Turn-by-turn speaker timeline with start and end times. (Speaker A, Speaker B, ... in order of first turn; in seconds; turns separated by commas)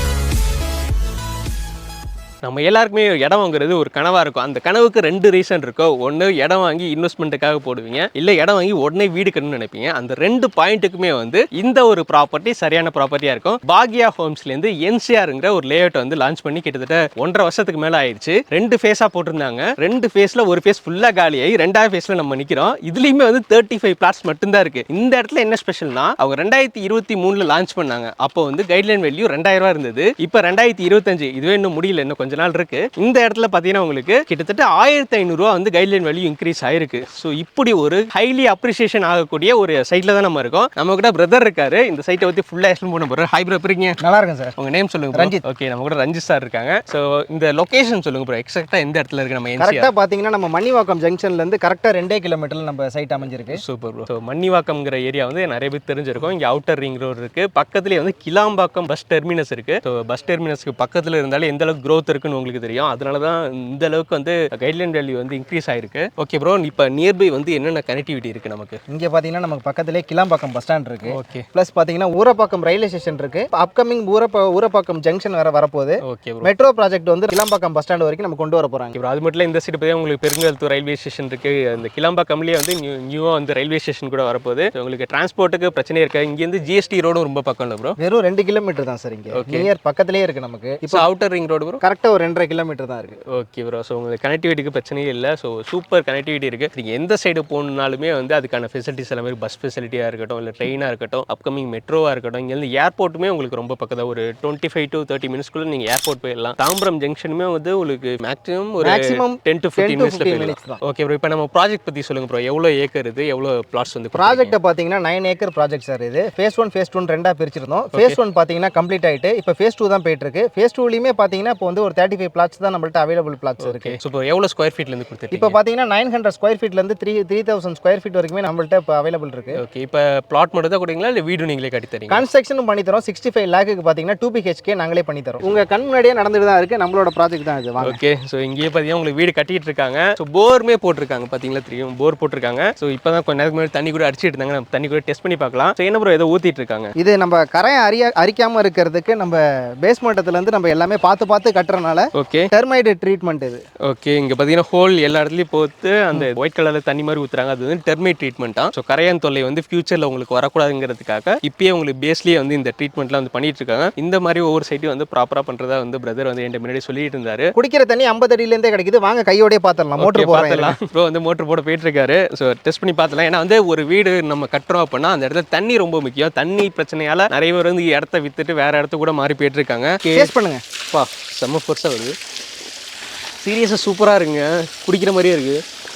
Speaker A: 2.4-44.0, Speaker B: 44.0-44.5, Speaker A: 44.6-49.9, Speaker B: 45.1-45.4, Speaker B: 49.6-53.6, Speaker A: 53.5-68.8, Speaker B: 68.9-79.0, Speaker A: 71.1-71.5, Speaker A: 76.1-76.5, Speaker A: 78.9-88.0, Speaker B: 88.0-91.0, Speaker A: 89.3-89.7, Speaker A: 90.9-91.8, Speaker B: 91.8-93.2, Speaker A: 93.3-114.5, Speaker B: 108.8-110.8, Speaker B: 114.2-124.0, Speaker A: 123.6-125.6, Speaker B: 125.3-129.6, Speaker A: 129.6-132.2, Speaker B: 132.1-138.0, Speaker A: 137.8-146.9, Speaker B: 147.0-153.6, Speaker A: 152.2-152.5, Speaker A: 153.8-167.5, Speaker B: 167.6-170.8, Speaker A: 170.0-180.3, Speaker B: 180.1-180.6, Speaker A: 180.9-182.1, Speaker A: 183.4-185.6